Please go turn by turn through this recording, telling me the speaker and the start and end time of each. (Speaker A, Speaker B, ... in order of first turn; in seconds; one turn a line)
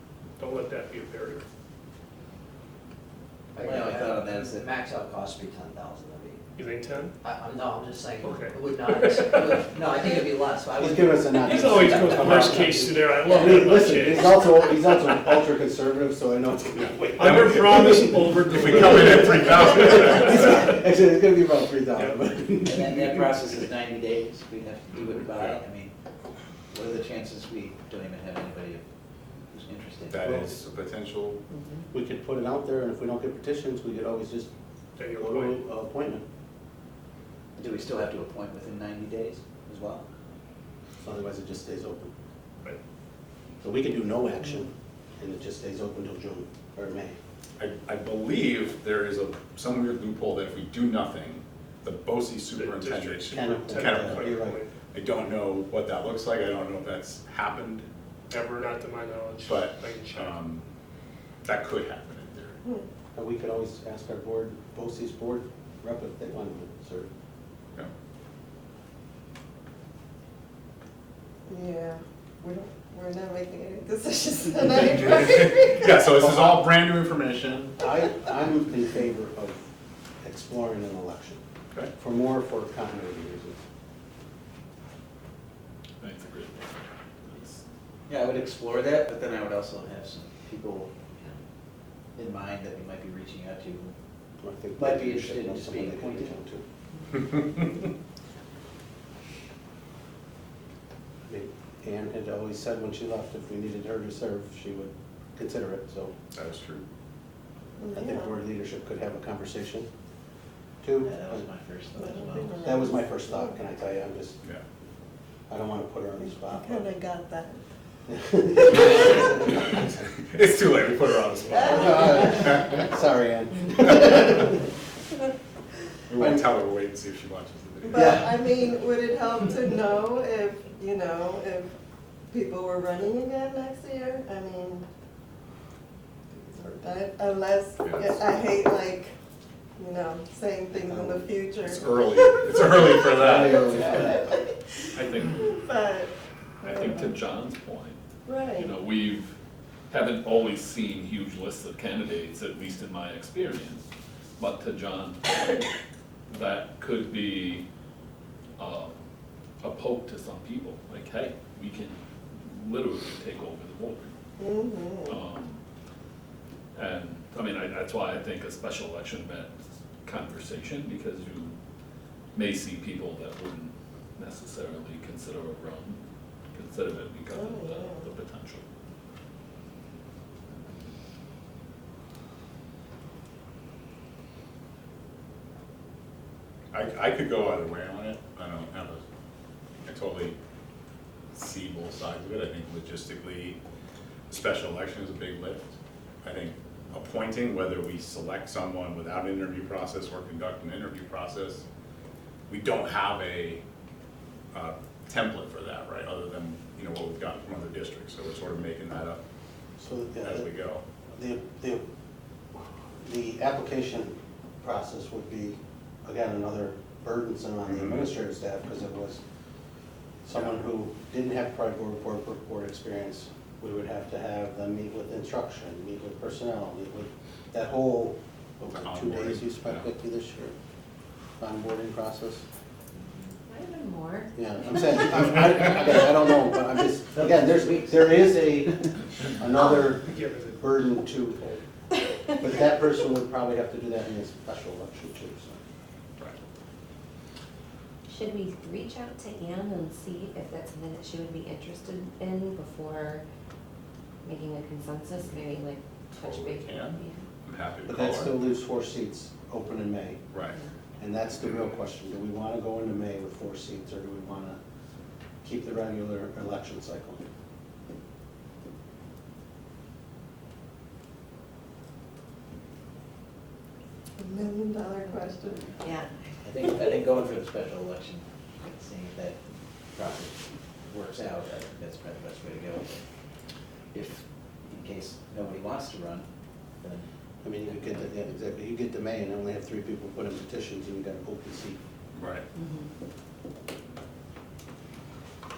Speaker A: 0.4-1.4
Speaker B: 3.5-6.4
Speaker C: 3.6-4.7
Speaker A: 6.6-7.1
Speaker B: 7.2-14.4
Speaker A: 8.2-9.6
Speaker D: 10.8-23.3
Speaker A: 11.5-14.2
Speaker A: 17.2-20.0
Speaker E: 17.2-17.9
Speaker E: 18.4-20.7
Speaker A: 22.0-22.3
Speaker C: 22.6-25.9
Speaker E: 25.3-25.6
Speaker C: 26.7-28.8
Speaker C: 29.5-30.2
Speaker E: 30.1-31.4
Speaker D: 30.2-30.6
Speaker D: 31.9-34.5
Speaker A: 35.0-35.6
Speaker D: 35.1-36.2
Speaker C: 37.6-40.0
Speaker D: 41.0-42.1
Speaker D: 43.6-47.2
Speaker E: 47.6-57.9
Speaker A: 52.6-54.8
Speaker D: 53.3-54.6
Speaker A: 58.3-60.4
Speaker E: 59.4-60.6
Speaker E: 61.5-62.6
Speaker D: 63.1-67.1
Speaker F: 71.5-76.2
Speaker E: 75.1-77.8
Speaker D: 76.2-76.7
Speaker D: 77.8-79.6
Speaker D: 80.2-81.4
Speaker D: 82.0-83.6
Speaker G: 86.0-86.7
Speaker G: 87.3-87.6
Speaker C: 88.1-90.9
Speaker C: 92.2-93.9
Speaker D: 94.4-96.6
Speaker C: 94.8-96.4
Speaker D: 101.2-106.1
Speaker E: 106.3-106.8
Speaker F: 107.8-108.4
Speaker D: 107.9-109.9
Speaker D: 110.8-111.5
Speaker C: 111.0-112.8
Speaker F: 112.0-113.6
Speaker D: 112.6-114.4
Speaker D: 115.5-116.9
Speaker F: 116.2-117.6
Speaker D: 118.1-119.3
Speaker F: 118.6-119.3
Speaker E: 120.2-122.9
Speaker F: 121.5-122.5
Speaker D: 121.7-124.7
Speaker E: 126.1-128.2
Speaker D: 126.2-126.4
Speaker F: 127.8-131.7
Speaker D: 127.9-128.3
Speaker F: 132.3-134.9
Speaker F: 136.3-139.1
Speaker E: 137.8-138.2
Speaker F: 139.8-147.2
Speaker D: 140.7-141.2
Speaker E: 141.6-143.8
Speaker D: 143.1-144.3
Speaker G: 145.0-145.5
Speaker G: 146.6-148.0
Speaker F: 148.3-148.7
Speaker G: 148.5-149.3
Speaker G: 149.9-153.8
Speaker G: 154.4-155.7
Speaker G: 156.3-157.7
Speaker G: 158.6-159.0
Speaker G: 159.6-164.1
Speaker F: 164.4-165.2
Speaker G: 165.1-165.6
Speaker G: 166.7-169.5
Speaker G: 170.0-171.6
Speaker G: 172.3-176.0
Speaker G: 176.5-178.6
Speaker F: 177.3-178.1
Speaker E: 186.7-189.0
Speaker E: 189.9-190.4
Speaker E: 191.3-193.6
Speaker E: 194.3-201.7
Speaker E: 202.5-203.6
Speaker E: 204.5-209.2
Speaker D: 209.8-210.5
Speaker E: 210.2-210.8
Speaker D: 211.1-211.8
Speaker D: 213.0-219.2
Speaker E: 217.7-218.1
Speaker D: 220.2-230.6
Speaker E: 228.7-229.9
Speaker D: 231.4-232.4
Speaker H: 233.5-234.0
Speaker D: 234.3-241.6
Speaker C: 237.2-238.6
Speaker A: 239.6-240.9
Speaker D: 242.3-245.6
Speaker H: 248.1-252.1
Speaker E: 255.2-255.4
Speaker E: 256.1-258.3
Speaker H: 256.3-256.6
Speaker D: 257.9-260.2
Speaker E: 260.3-260.6
Speaker D: 261.0-264.6
Speaker D: 265.4-267.2
Speaker F: 274.2-275.8
Speaker C: 276.4-279.4
Speaker C: 279.9-283.0
Speaker C: 283.9-286.3
Speaker C: 286.8-287.1
Speaker D: 287.4-291.8
Speaker C: 287.6-288.1
Speaker E: 292.1-292.5